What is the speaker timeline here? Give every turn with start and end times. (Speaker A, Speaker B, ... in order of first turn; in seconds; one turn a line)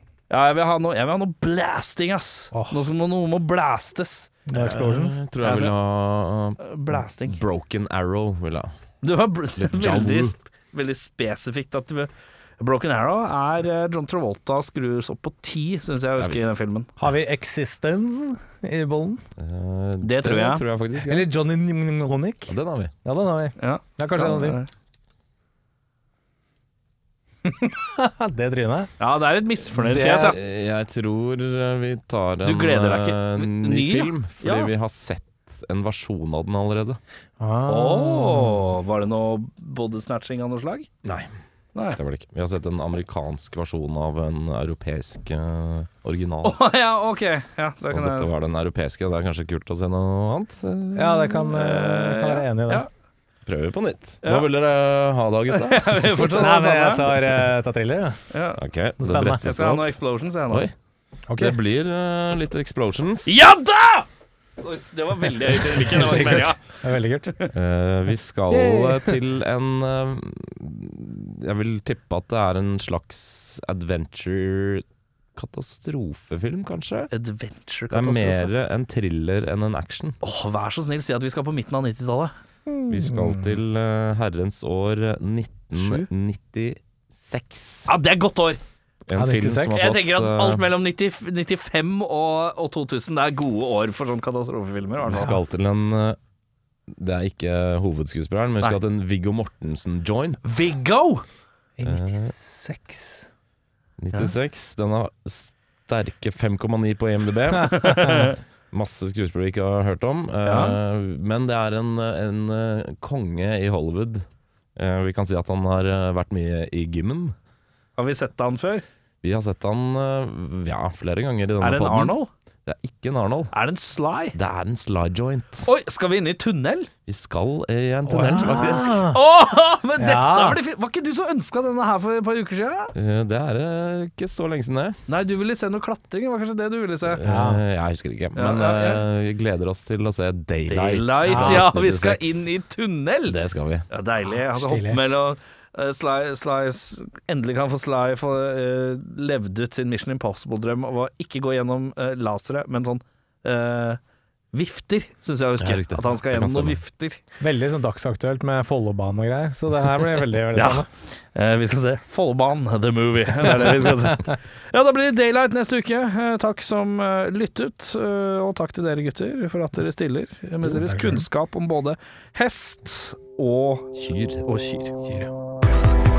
Speaker A: 0.3-4.3
Speaker B: 2.5-2.8
Speaker B: 4.5-5.2
Speaker C: 4.5-6.7
Speaker A: 5.4-5.7
Speaker A: 6.6-7.4
Speaker C: 7.3-8.7
Speaker A: 9.0-16.9
Speaker C: 9.6-10.3
Speaker C: 16.2-16.5
Speaker B: 17.0-19.2
Speaker C: 19.4-21.3
Speaker A: 20.0-20.6
Speaker B: 21.0-24.6
Speaker C: 22.5-22.9
Speaker A: 23.6-24.7
Speaker B: 27.4-28.9
Speaker A: 29.0-30.4
Speaker C: 29.8-37.0
Speaker A: 32.4-34.7
Speaker B: 37.4-38.7
Speaker A: 37.7-40.9
Speaker C: 41.0-41.3
Speaker C: 42.0-46.6
Speaker A: 46.4-48.3
Speaker C: 47.9-51.5
Speaker B: 51.0-52.9
Speaker A: 51.5-52.9
Speaker C: 53.5-56.3
Speaker A: 54.2-54.5
Speaker A: 55.5-57.1
Speaker B: 56.3-58.2
Speaker A: 58.3-58.6
Speaker C: 58.6-60.0
Speaker B: 59.0-59.5
Speaker A: 59.4-60.7
Speaker B: 61.3-61.5
Speaker C: 61.4-63.4
Speaker A: 63.3-64.1
Speaker A: 64.6-66.6
Speaker B: 65.8-67.3
Speaker C: 67.5-74.8
Speaker B: 68.5-69.2
Speaker C: 75.4-77.1
Speaker A: 77.1-78.5
Speaker C: 77.9-80.2
Speaker A: 80.2-82.3
Speaker B: 82.7-83.6
Speaker C: 82.9-87.9
Speaker A: 85.7-86.1
Speaker A: 87.9-88.6
Speaker C: 89.1-90.7
Speaker B: 89.1-89.9
Speaker A: 89.7-95.4
Speaker C: 95.0-96.2
Speaker C: 96.9-100.7
Speaker A: 100.4-101.2
Speaker B: 101.8-103.3
Speaker C: 101.8-102.3
Speaker C: 104.0-114.2
Speaker A: 107.6-108.4
Speaker A: 110.5-110.8
Speaker C: 114.8-117.3
Speaker A: 118.0-118.8
Speaker C: 119.2-123.5
Speaker A: 121.6-122.3
Speaker A: 123.5-124.4
Speaker C: 124.3-125.7
Speaker A: 125.7-126.9
Speaker C: 127.1-129.1
Speaker B: 128.1-129.2
Speaker A: 129.1-132.9
Speaker B: 130.0-130.6
Speaker C: 132.9-135.0
Speaker A: 135.1-137.2
Speaker C: 137.1-142.5
Speaker B: 137.2-137.6
Speaker A: 138.4-139.0
Speaker A: 140.7-143.4
Speaker B: 141.3-141.7
Speaker C: 143.3-143.9
Speaker A: 143.9-154.0
Speaker B: 144.4-145.0
Speaker A: 154.5-157.2
Speaker C: 155.6-156.8
Speaker B: 157.4-160.9
Speaker A: 160.5-173.9
Speaker B: 170.6-171.3
Speaker C: 173.9-174.4
Speaker A: 174.4-174.9
Speaker B: 175.0-175.3